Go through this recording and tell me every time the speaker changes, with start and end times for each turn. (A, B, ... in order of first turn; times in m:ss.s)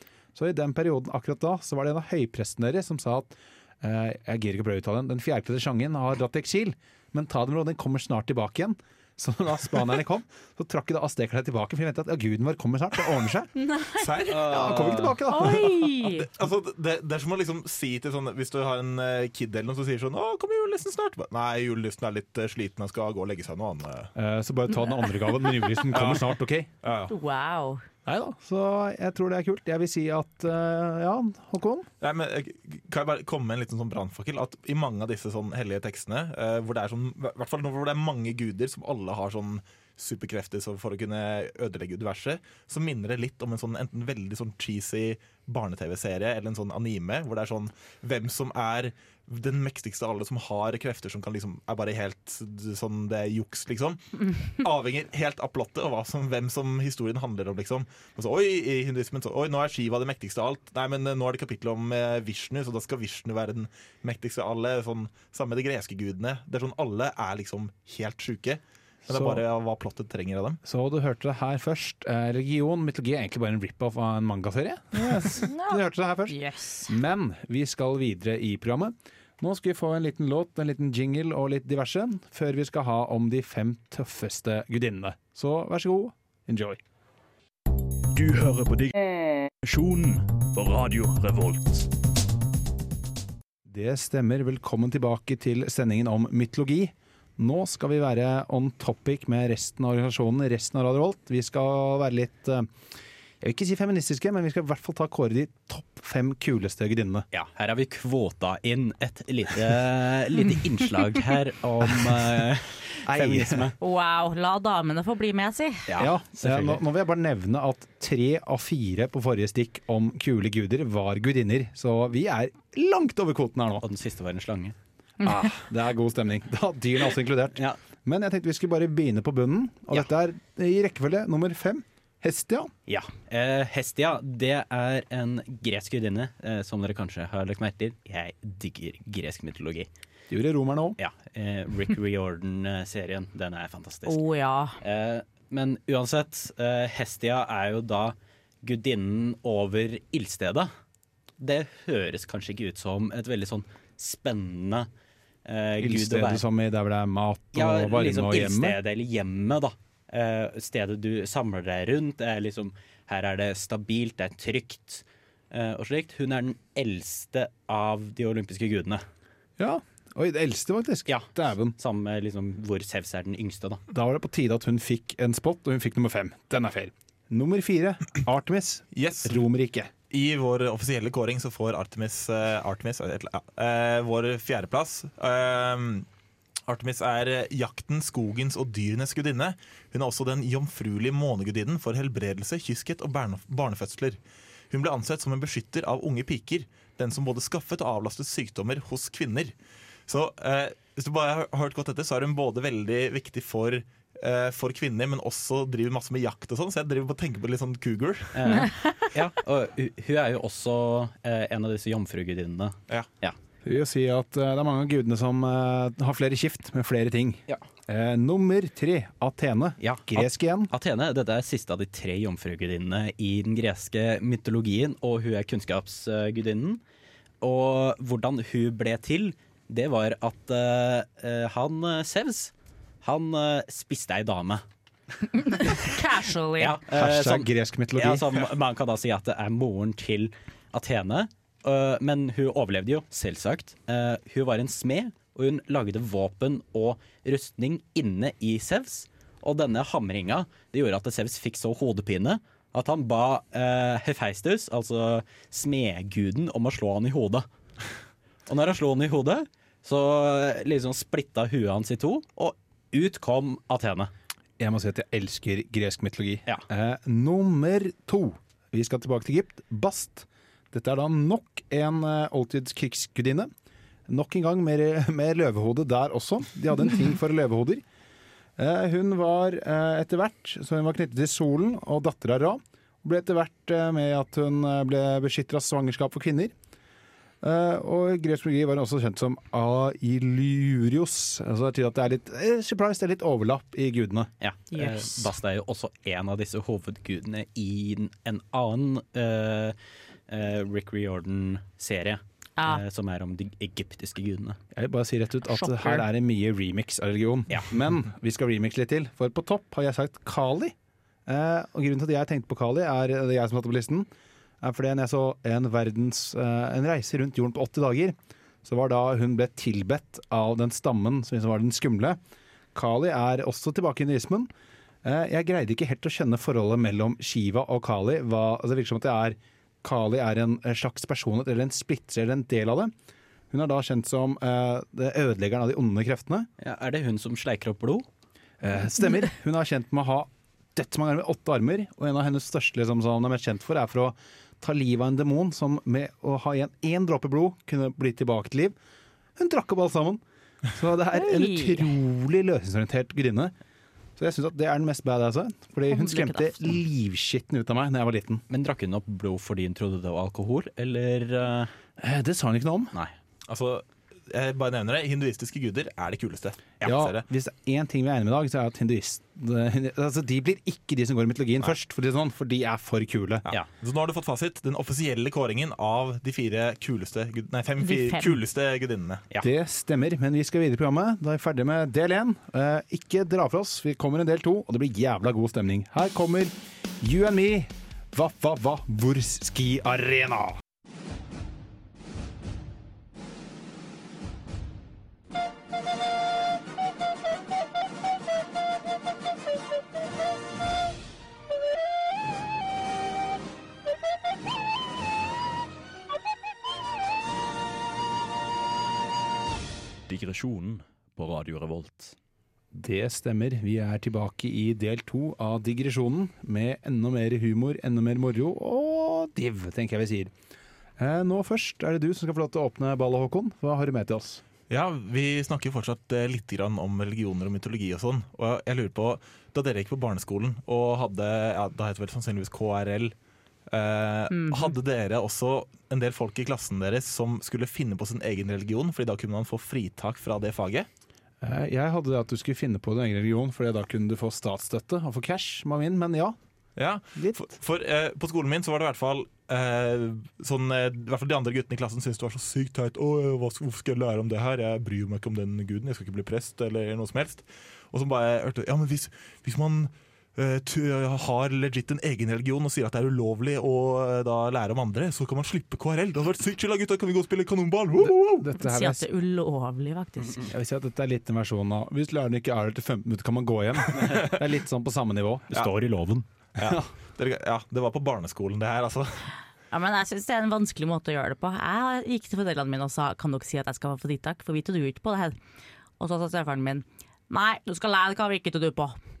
0:00.3-0:13.5 A
0:13.6-0:14.3 B
0:14.0-0:24.1 C
0:14.3-0:15.2 D
0:14.3-0:15.9 A
0:15.3-0:16.3 B
0:24.1-0:26.7 A
0:25.9-0:27.1 C
0:27.1-0:27.8 B
0:28.0-0:31.9 A
0:32.0-1:10.6 C
1:09.1-1:09.4 A
1:10.6-1:26.8 A
1:15.4-1:16.9 B
1:28.1-1:31.9 E
1:33.6-1:42.7 A
1:43.4-1:47.3 A
1:47.3-1:53.8 D
1:51.8-1:52.4 A
1:53.0-1:53.7 A
1:53.8-1:56.0 B
1:55.8-1:56.8 D
1:56.0-2:03.8 A
2:03.8-2:04.8 D
2:05.2-2:05.5 B
2:05.2-2:12.7 A
2:12.9-2:19.9 D
2:20.3-2:21.0 A
2:21.0-2:24.2 D
2:24.0-2:24.8 B
2:24.8-2:30.7 D
2:31.4-2:34.9 D
2:35.4-2:36.4 D
2:35.8-2:38.8 A
2:37.5-2:49.0 D
2:49.6-2:51.8 A
2:51.1-2:53.8 D
2:53.9-2:59.9 A
2:58.9-2:59.4 C
3:00.1-3:06.1 C
3:06.7-3:14.2 C
3:14.7-3:19.5 C
3:20.1-3:28.3 C
3:28.3-3:33.4 D
3:28.6-3:28.9 B
3:33.6-3:40.7 A
3:39.8-3:46.8 D
3:47.4-3:54.6 D
3:55.3-3:56.8 B
3:56.6-4:17.5 D
3:56.9-3:58.4 A
4:18.5-4:24.1 D
4:24.6-4:33.5 A
4:34.1-4:37.8 A
4:38.6-4:46.5 A
4:47.4-4:54.3 A
4:54.4-4:59.8 D
4:54.7-4:55.3 B
5:00.3-5:04.6 D
5:02.6-5:02.8 B
5:04.7-5:10.7 A
5:05.4-5:06.0 B
5:11.2-5:14.1 A
5:14.6-5:22.2 A
5:22.7-5:24.5 A
5:25.0-5:32.9 A
5:33.5-5:36.5 A
5:36.6-5:38.1 D
5:38.6-5:48.8 A
5:49.4-5:53.5 A
5:51.1-5:51.9 B
5:54.2-5:58.4 A
5:55.9-5:56.8 B
5:58.5-6:01.7 D
6:02.0-6:02.9 A
6:03.5-6:07.2 C
6:06.8-6:13.4 A
6:13.4-6:19.2 C
6:17.8-6:18.4 B
6:19.4-6:30.6 A
6:50.1-6:52.1 E
6:52.7-7:00.3 A
7:01.0-7:04.4 A
7:04.7-7:13.1 C
7:13.7-7:20.9 C
7:14.3-7:14.7 B
7:21.4-7:26.4 A
7:26.8-7:48.5 C
7:27.1-7:27.5 A
7:48.0-7:49.0 A
7:48.6-7:50.5 B
7:50.5-7:55.5 A
7:55.5-7:56.2 D
7:56.6-7:59.3 C
7:56.6-7:56.9 A
7:59.7-8:05.3 B
8:06.0-8:09.0 B